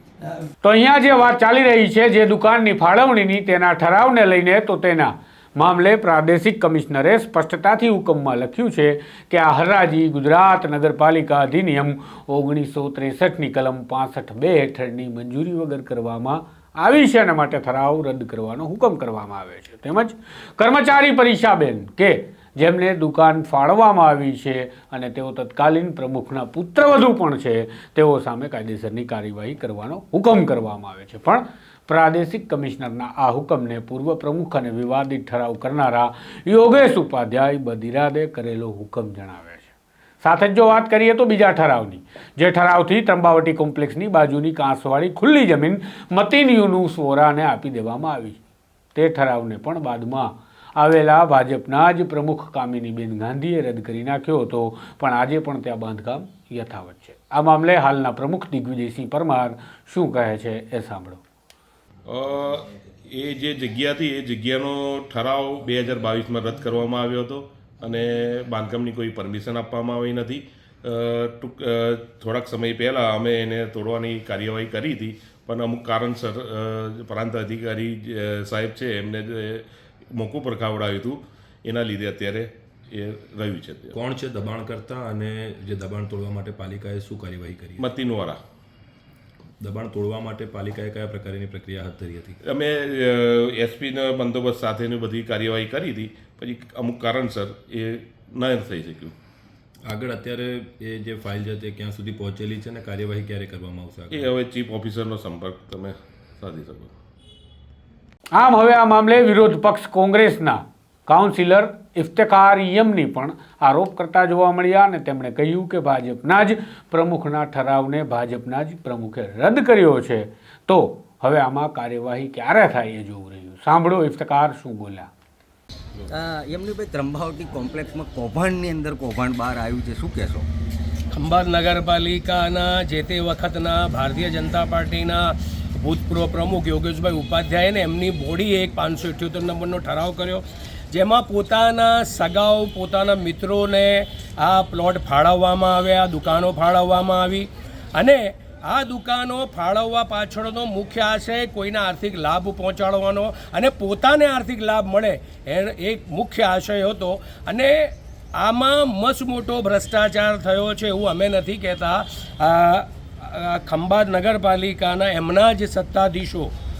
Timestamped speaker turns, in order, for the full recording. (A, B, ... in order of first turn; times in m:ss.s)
0:00.6-0:39.7 A
0:40.2-0:48.4 A
0:48.9-1:01.2 A
1:02.0-1:23.9 B
1:23.9-1:27.9 C
1:27.8-1:28.4 B
1:29.6-1:32.4 C
1:32.4-1:39.1 B
1:39.9-1:44.3 C
1:44.1-1:46.9 B
1:48.3-2:05.1 A
2:06.1-2:10.5 D
2:11.1-2:46.5 E